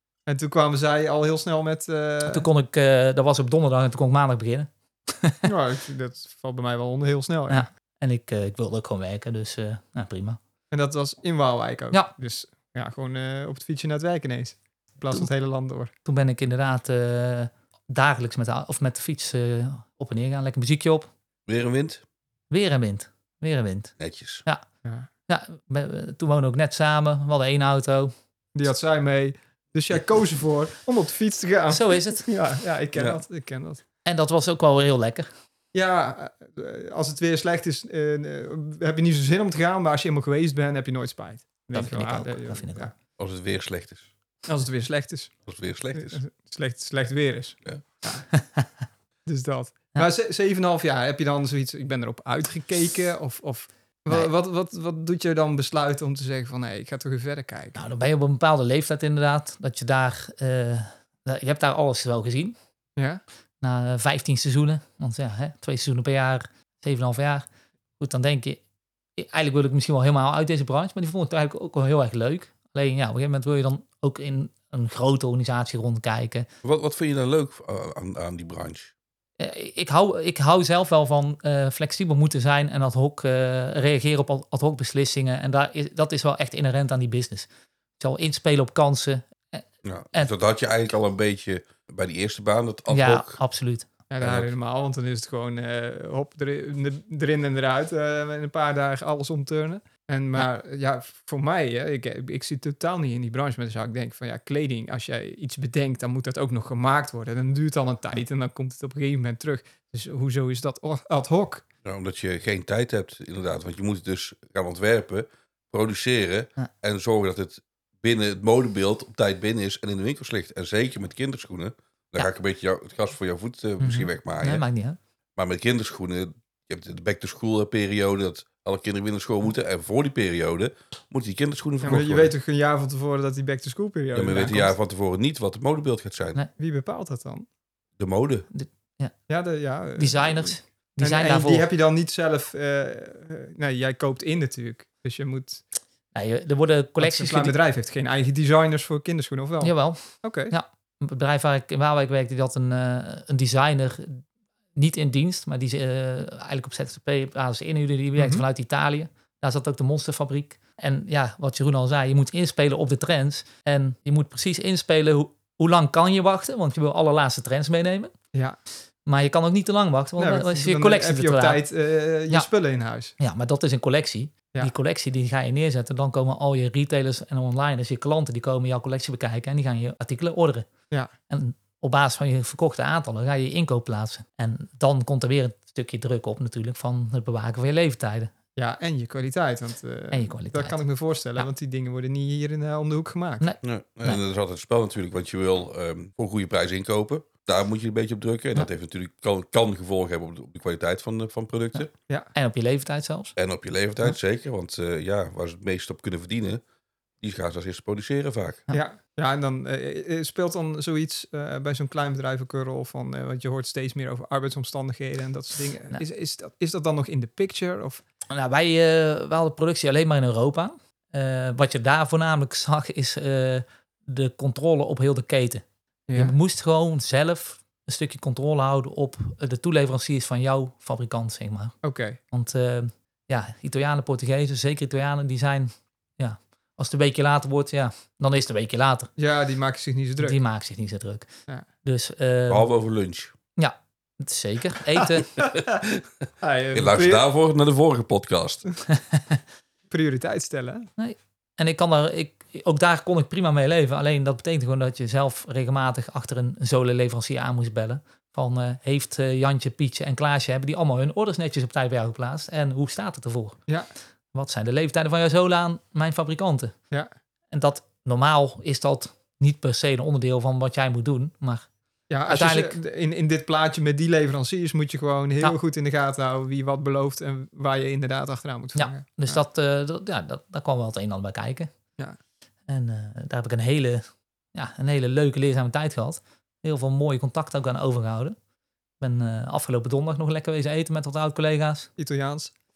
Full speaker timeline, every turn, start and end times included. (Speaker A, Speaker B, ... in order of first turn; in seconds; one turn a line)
Speaker A: 0.3-2.5
Speaker B: 2.2-5.5
Speaker A: 5.5-7.7
Speaker B: 7.5-10.4
Speaker A: 10.7-15.9
Speaker B: 16.1-21.1
Speaker C: 21.5-22.0
Speaker B: 22.5-24.6
Speaker C: 24.0-24.4
Speaker B: 25.3-28.1
Speaker A: 28.6-33.8
Speaker B: 31.7-32.3
Speaker B: 34.1-35.3
Speaker A: 35.7-42.9
Speaker B: 41.7-42.9
Speaker C: 43.2-44.1
Speaker A: 44.5-45.4
Speaker C: 45.5-46.2
Speaker A: 45.9-48.3
Speaker B: 48.3-48.7
Speaker A: 49.3-57.8
Speaker B: 57.8-62.5
Speaker B: 63.6-67.5
Speaker B: 68.0-68.6
Speaker B: 69.2-76.5
Speaker C: 76.6-78.9
Speaker B: 79.4-90.3
Speaker C: 89.8-93.4
Speaker B: 92.9-93.9
Speaker A: 94.1-111.7
Speaker C: 94.2-94.5
Speaker C: 111.8-124.6
Speaker B: 123.8-125.0
Speaker C: 125.4-132.3
Speaker A: 131.8-134.7
Speaker C: 134.1-136.4
Speaker A: 136.6-137.5
Speaker C: 138.0-138.5
Speaker B: 138.5-139.1
Speaker A: 139.3-145.6
Speaker B: 140.0-141.7
Speaker B: 146.1-147.6
Speaker A: 147.0-150.5
Speaker B: 149.6-154.2
Speaker B: 154.8-168.1
Speaker A: 158.2-158.4
Speaker B: 169.1-171.6
Speaker A: 170.2-173.2
Speaker B: 173.2-180.7
Speaker B: 181.3-188.3
Speaker A: 188.6-193.5
Speaker B: 190.1-190.8
Speaker B: 193.4-194.2
Speaker C: 193.6-201.9
Speaker B: 201.8-203.3
Speaker C: 203.4-206.6
Speaker C: 207.2-208.6
Speaker A: 208.7-218.0
Speaker B: 218.3-225.6
Speaker A: 226.1-226.4
Speaker B: 226.2-231.8
Speaker A: 231.8-232.2
Speaker B: 232.3-239.1
Speaker A: 239.2-240.4
Speaker B: 240.2-241.3
Speaker B: 241.8-242.7
Speaker C: 242.5-243.3
Speaker B: 243.6-245.4
Speaker A: 245.4-245.8
Speaker C: 245.4-246.0
Speaker A: 246.4-247.2
Speaker C: 246.7-248.6
Speaker B: 248.9-249.4
Speaker A: 249.9-250.9
Speaker B: 251.0-263.6
Speaker B: 264.3-266.7
Speaker B: 267.5-271.7
Speaker A: 272.1-279.4
Speaker B: 272.3-272.8
Speaker B: 278.8-281.7
Speaker B: 282.7-288.4
Speaker B: 289.0-291.9
Speaker A: 292.0-292.5